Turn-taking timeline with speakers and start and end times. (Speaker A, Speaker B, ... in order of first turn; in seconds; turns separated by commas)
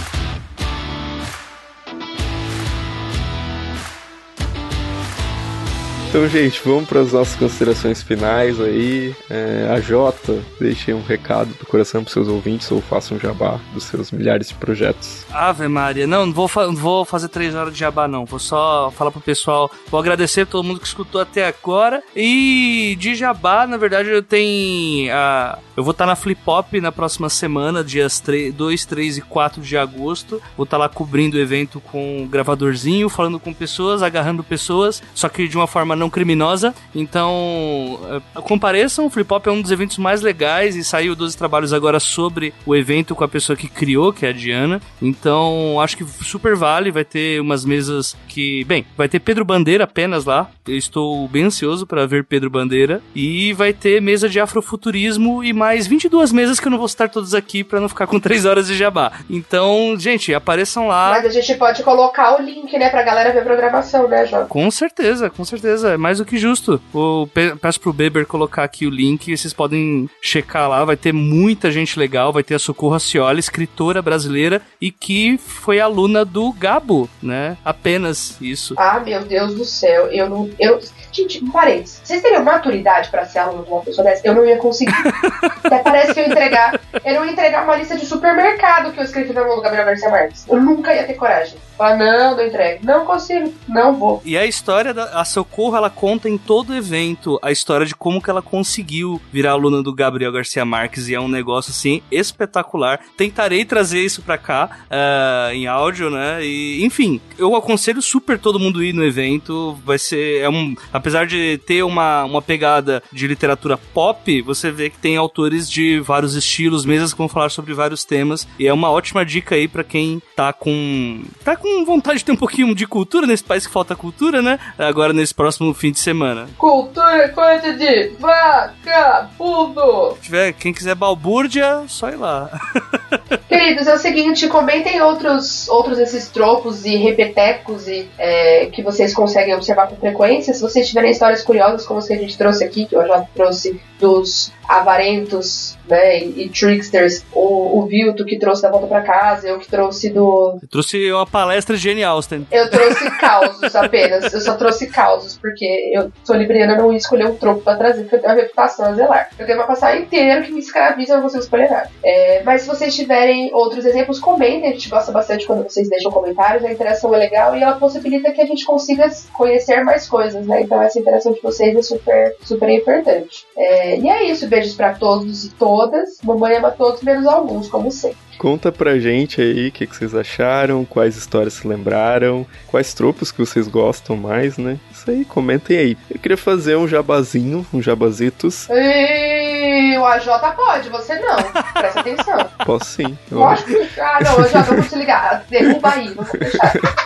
Speaker A: 6.1-15.2, Speaker B: 15.3-61.2, Speaker C: 61.0-64.5, Speaker B: 64.5-78.8, Speaker C: 78.8-85.1, Speaker B: 85.0-85.5, Speaker C: 85.7-94.2, Speaker B: 94.2-126.5, Speaker C: 126.6-130.2, Speaker B: 130.2-133.2, Speaker C: 133.5-150.6, Speaker B: 150.6-153.9, Speaker C: 152.5-178.2, Speaker A: 178.4-188.7, Speaker C: 188.7-192.5, Speaker A: 192.6-193.7, Speaker C: 193.3-196.9, Speaker A: 194.2-194.8